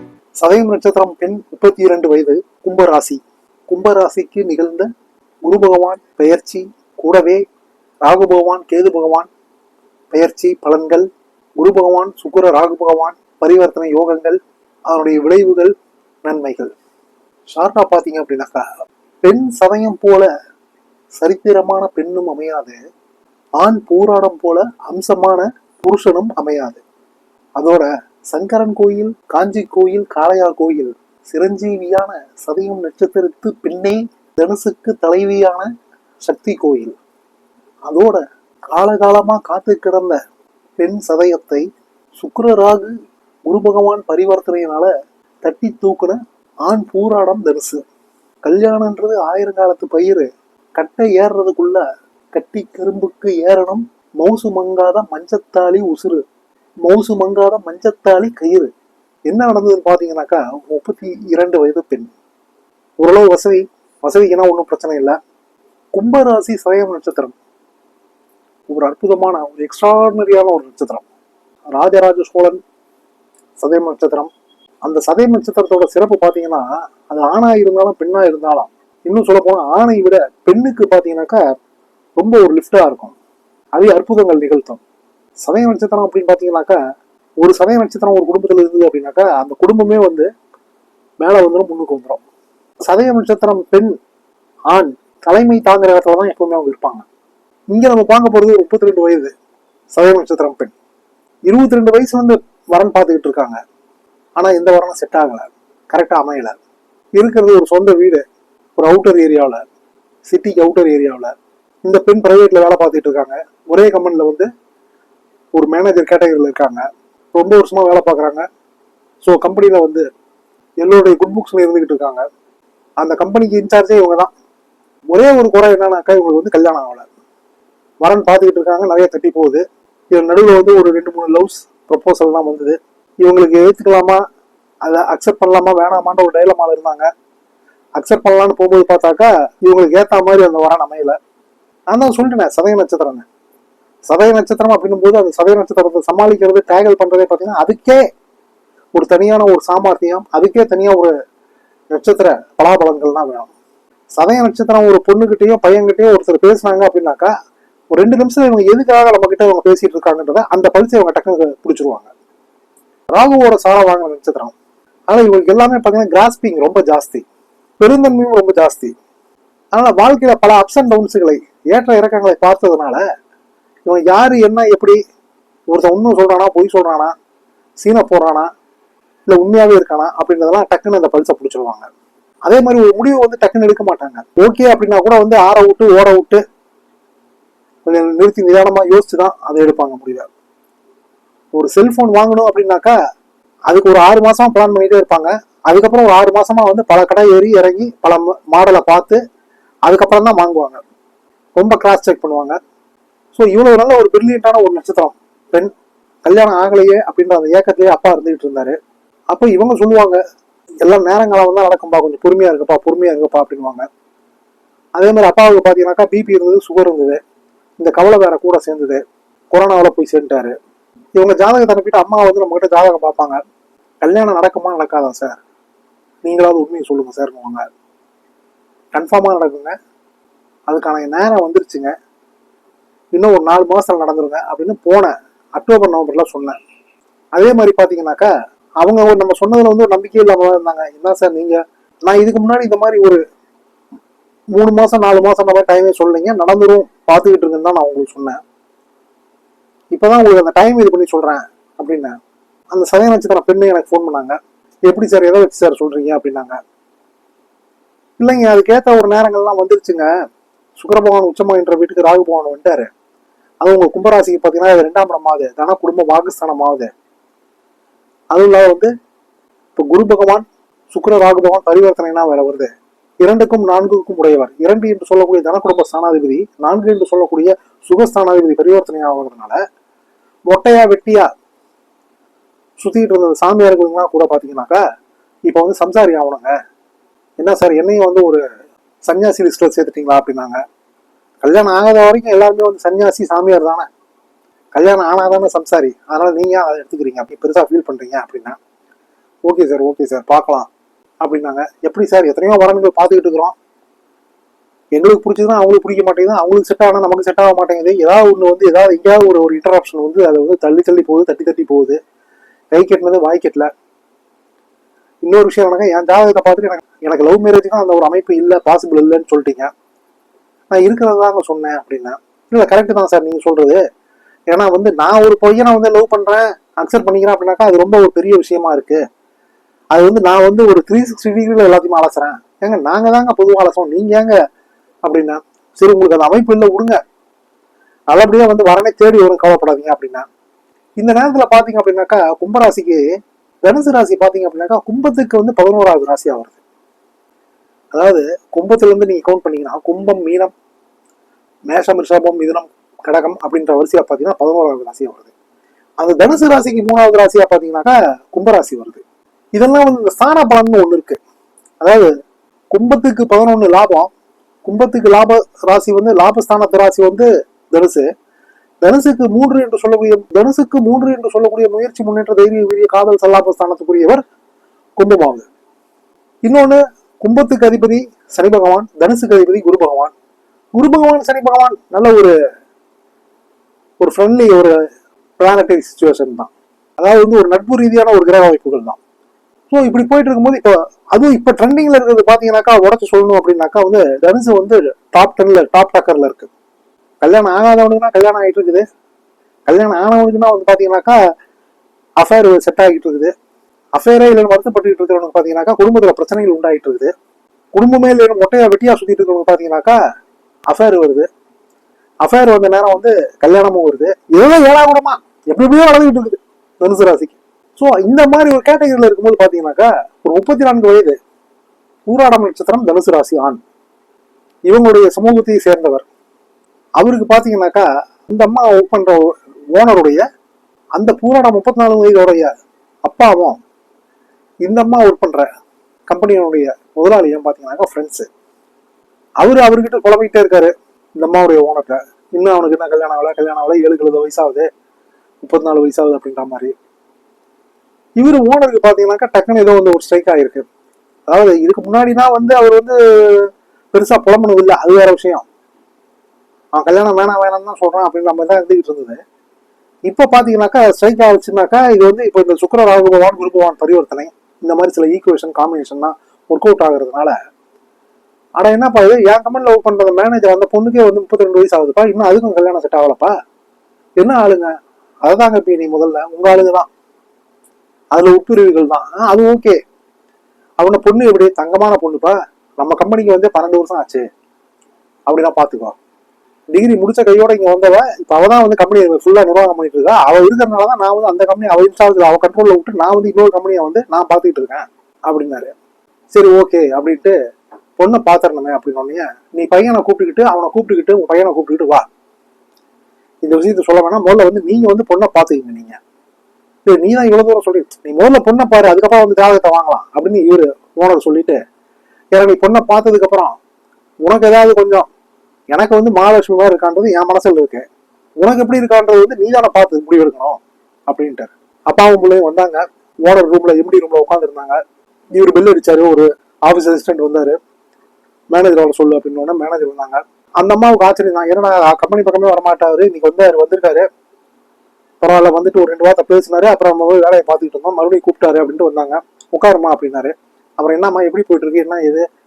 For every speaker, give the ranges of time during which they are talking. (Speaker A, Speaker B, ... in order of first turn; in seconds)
Speaker A: 0.4-4.9, 5.4-7.4, 8.0-9.3, 10.1-11.1, 11.6-14.4, 14.9-15.7, 16.2-16.7, 17.5-18.6, 19.2-20.3, 21.2-22.8, 23.6-26.8, 27.6-35.7, 36.2-36.9, 37.9-40.2, 40.8-41.6, 42.2-42.9, 43.5-44.9, 45.4-47.8, 48.4-51.8, 52.3-56.2, 56.8-58.7, 59.3-62.1, 63.0-65.2, 65.9-67.3, 68.7-71.0, 71.7-72.6, 73.6-74.3, 74.8-81.4, 82.2-83.1, 83.8-84.8, 85.4-86.8, 87.4-90.3, 91.2-92.2, 92.9-93.9, 94.7-97.0, 97.7-99.3, 99.9-100.7, 101.5-103.6, 104.4-106.5, 107.2-108.2, 108.8-109.6, 110.3-111.3, 111.8-114.5, 115.5-118.4, 119.2-120.0, 120.8-122.2, 123.0-124.3, 125.1-127.1, 128.0-134.2, 134.8-137.1, 138.0-141.2, 141.9-143.2, 144.1-148.0, 148.9-151.1, 151.9-153.5, 154.2-157.3, 157.9-162.1, 163.1-164.5, 165.1-167.2, 167.8-168.9, 169.7-173.0, 173.9-175.0, 175.7-177.1, 177.8-178.5, 179.3-181.9, 182.4-186.4, 187.8-190.3, 191.5-192.9, 193.7-199.2, 199.8-200.8, 201.6-202.6, 203.3-205.7, 206.2-208.8, 209.3-210.2, 210.8-213.8, 214.9-217.2, 217.8-220.5, 221.2-223.4, 224.0-225.4, 226.2-227.6, 228.9-229.7, 230.7-231.9, 233.1-236.6, 237.3-238.3, 238.8-243.2, 244.5-248.4, 249.9-252.1, 252.7-256.6, 258.2-260.1, 260.8-262.9, 263.6-266.9, 268.3-268.9, 269.8-272.7, 273.2-279.6, 280.5-281.3, 282.8-284.8, 285.5-286.5, 287.4-288.4, 289.1-290.6, 291.4-293.9, 294.7-298.6, 299.4-300.7, 301.2-303.5, 304.9-312.0, 312.7-313.7, 315.2-319.7, 320.7-323.8, 324.5-329.0, 329.9-334.3, 335.0-337.0, 338.1-340.2, 341.0-343.0, 343.6-346.6, 347.9-350.5, 351.7-355.3, 356.0-359.0, 359.5-361.2, 361.8-362.1, 362.7-364.1, 364.6-368.1, 368.8-374.2, 375.0-375.4, 376.4-380.1, 380.7-382.3, 384.0-384.8, 385.4-389.0, 389.7-396.5, 397.2-398.8, 399.7-401.2, 402.2-403.3, 403.9-407.1, 407.7-410.0, 410.7-411.3, 412.2-421.1, 422.1-423.6, 424.7-426.0, 427.0-430.2, 430.9-432.5, 433.0-433.6, 434.6-435.5, 436.1-438.3, 439.4-444.6, 445.4-446.7, 448.2-450.6, 451.3-455.4, 456.7-459.2, 460.1-467.3, 468.6-473.3, 474.2-474.7, 475.2-476.9, 478.1-479.8, 480.8-484.2, 485.3-485.9, 486.7-495.7, 496.3-497.3, 498.0-502.1, 503.4-506.0, 506.9-511.6, 512.3-513.5, 514.2-515.0, 515.7-517.8, 518.4-524.8, 525.3-527.6, 528.5-534.0, 535.2-542.2